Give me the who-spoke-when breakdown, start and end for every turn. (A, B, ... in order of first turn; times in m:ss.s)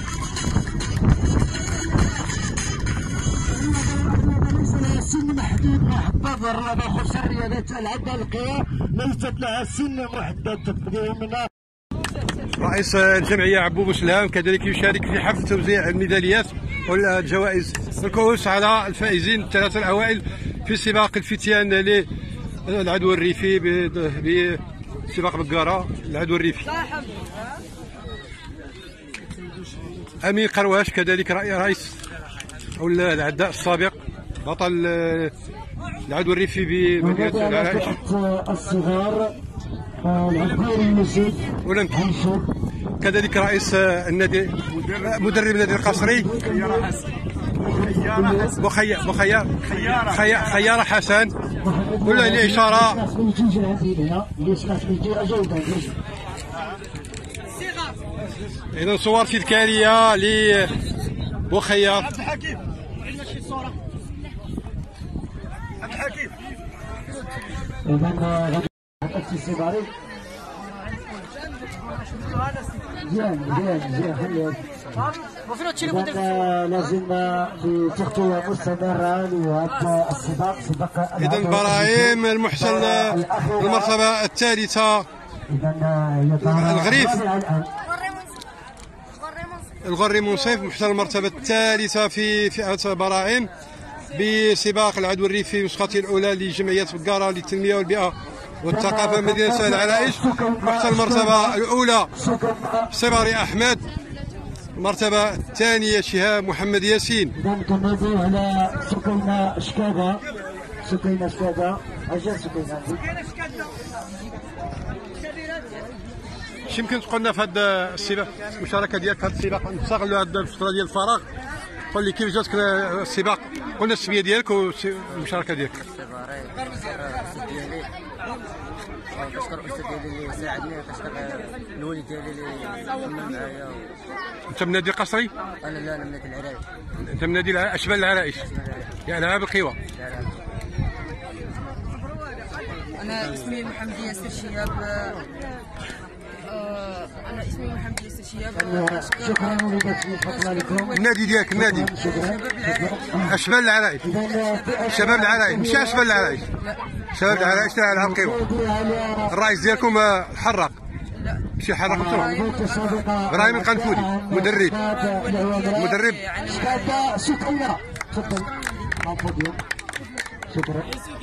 0:03.5-0:11.5 A
0:12.6-0:22.1 B
0:22.6-0:26.7 B
0:30.2-0:32.0 B
0:32.8-0:35.3 B
0:36.1-0:38.0 B
0:37.0-0:39.3 A
0:40.0-0:42.5 A
0:41.6-0:42.1 B
0:43.0-0:46.3 B
0:45.7-0:47.0 A
0:47.6-0:48.6 A
0:48.4-0:51.3 B
0:51.6-0:56.0 A
0:52.0-0:53.0 B
0:58.7-1:00.7 B
1:01.5-1:02.2 B
1:07.8-1:09.9 A
1:13.0-1:15.1 A
1:15.7-1:24.0 A
1:21.2-1:25.1 B
1:25.5-1:27.7 A
1:26.4-1:27.2 B
1:29.8-1:33.5 B
1:34.1-1:42.1 B
1:38.6-1:41.6 A
1:42.1-1:43.1 A
1:42.9-1:43.8 B
1:44.8-1:47.3 B
1:47.4-1:50.2 A
1:50.8-1:53.1 A
1:56.7-2:01.3 B
2:01.9-2:06.0 B
2:06.0-2:06.5 C
2:07.0-2:07.8 C
2:09.3-2:13.6 C
2:14.5-2:15.3 B
2:15.8-2:16.5 C
2:17.0-2:19.8 B
2:23.3-2:25.1 D
2:26.5-2:28.4 D
2:28.5-2:31.0 A
2:30.9-2:32.0 B
2:31.5-2:33.4 A
2:33.2-2:34.0 B
2:34.0-2:36.4 A
2:34.9-2:36.5 B
2:37.1-2:38.4 B
2:37.2-2:39.4 A
2:39.3-2:40.8 B
2:41.6-2:42.4 B
2:41.8-2:49.6 A
2:43.3-2:44.8 B
2:45.7-2:46.4 B
2:50.5-2:50.9 A